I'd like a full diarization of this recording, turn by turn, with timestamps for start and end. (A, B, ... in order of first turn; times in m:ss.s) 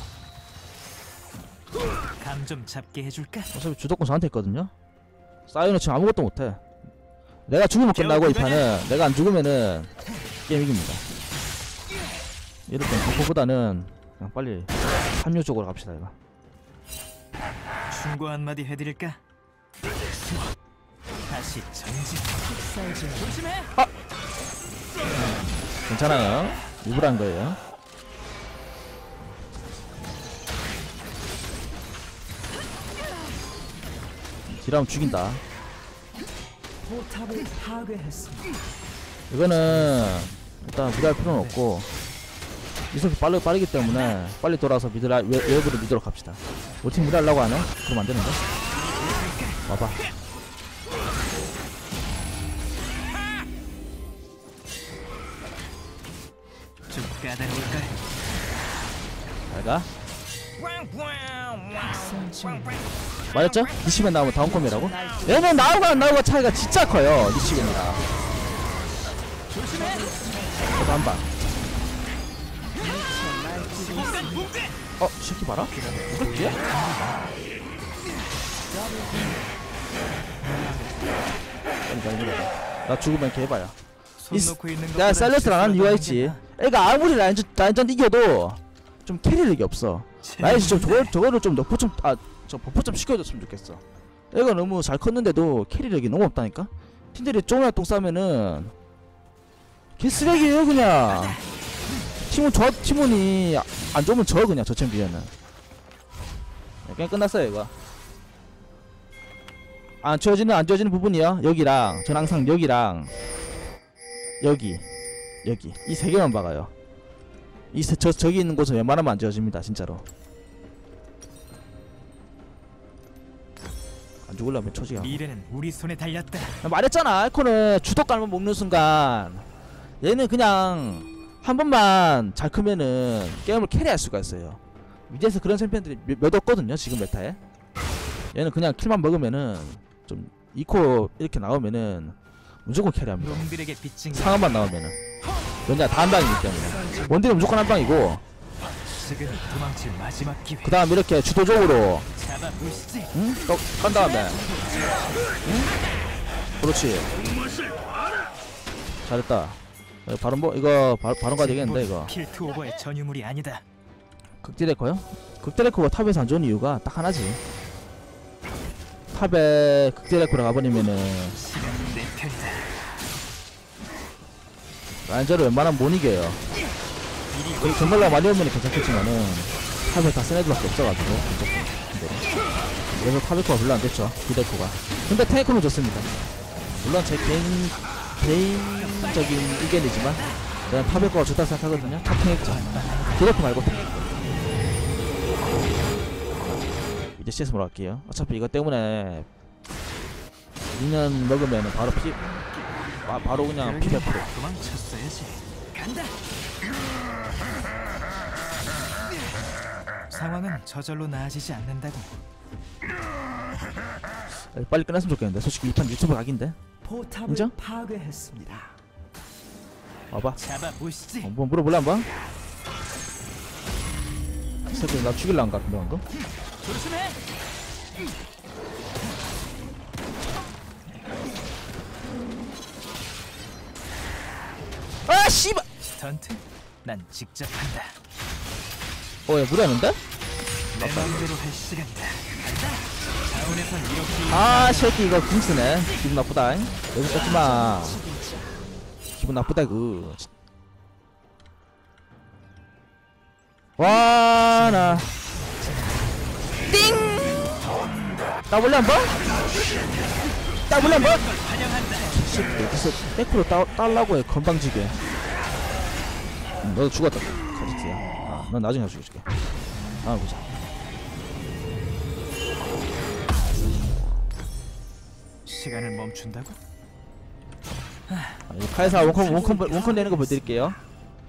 0:02.2-0:03.5 A
0:03.5-0:04.7 B
0:05.5-0:06.6 B
0:07.5-0:09.9 B
0:07.9-0:08.7 A
0:10.5-0:11.0 B
0:12.7-0:16.2 B
0:17.9-0:19.2 A
0:21.3-0:22.4 A
0:22.4-0:23.4 C
0:23.2-0:23.7 A
0:25.1-0:27.6 B
0:34.5-0:35.4 B
0:36.8-0:38.6 C
0:39.3-0:41.9 B
0:39.7-0:40.3 A
0:41.2-0:41.6 A
0:42.9-0:48.4 B
0:48.8-0:49.6 A
0:49.7-0:50.0 B
0:56.9-0:58.0 A
0:59.5-0:59.9 B
1:01.7-1:02.9 C
1:03.3-1:08.0 B
1:04.4-1:06.2 C
1:09.5-1:11.2 C
1:10.8-1:11.5 B
1:12.8-1:14.5 C
1:13.9-1:14.7 A
1:15.0-1:16.6 B
1:15.7-1:17.3 A
1:18.7-1:19.5 C
1:21.9-1:23.8 B
1:24.2-1:26.4 A
1:24.3-1:38.7 B
1:30.2-1:31.2 A
1:40.0-1:41.4 B
1:42.3-1:45.3 B
1:46.8-1:47.7 B
1:50.0-1:53.1 B
1:54.4-1:54.8 B
1:55.4-1:56.7 B
1:57.7-2:00.0 B
2:04.2-2:05.2 B
2:05.0-2:06.6 A
2:06.6-2:09.5 B
2:10.0-2:17.4 B
2:18.3-2:23.5 B
2:23.2-2:24.6 A
2:24.1-2:25.0 B
2:25.7-2:28.2 B
2:26.5-2:27.6 C
2:28.9-2:30.8 A
2:30.6-2:32.1 B
2:32.2-2:33.2 A
2:33.1-2:34.4 B
2:34.1-2:35.3 C
2:35.4-2:35.7 B
2:36.6-2:37.1 B
2:39.0-2:42.1 B
2:41.3-2:43.6 A
2:44.4-2:47.4 B
2:49.1-2:51.4 B
2:51.4-2:52.7 A
2:55.1-2:56.4 B
2:57.3-2:58.2 A
2:57.6-3:02.3 B
3:02.9-3:06.1 B
3:06.8-3:14.2 B
3:11.7-3:13.4 A
3:17.2-3:19.3 B
3:20.7-3:22.2 B
3:23.0-3:24.3 B
3:23.5-3:26.2 A
3:30.1-3:32.2 A
3:34.5-3:36.6 B
3:36.8-3:38.8 C
3:37.3-3:37.5 B
3:40.1-3:40.4 B
3:40.4-3:41.3 A
3:41.2-3:42.1 B
3:44.7-3:46.0 B
3:46.6-3:47.2 A
3:55.1-3:55.7 B
3:55.9-3:58.0 A
3:59.3-4:00.0 B
4:00.7-4:05.0 A
4:00.8-4:01.3 B
4:04.3-4:08.0 B
4:07.0-4:08.7 C
4:09.2-4:10.3 B
4:13.8-4:15.1 B
4:14.5-4:16.1 A
4:16.7-4:17.6 B
4:18.5-4:19.3 B
4:20.7-4:21.2 B
4:20.7-4:22.2 A
4:22.1-4:25.0 B
4:22.3-4:23.1 C
4:26.6-4:29.3 B
4:30.0-4:30.5 B
4:35.4-4:36.6 A
4:38.1-4:40.1 A
4:38.5-4:40.8 B
4:39.1-4:40.8 C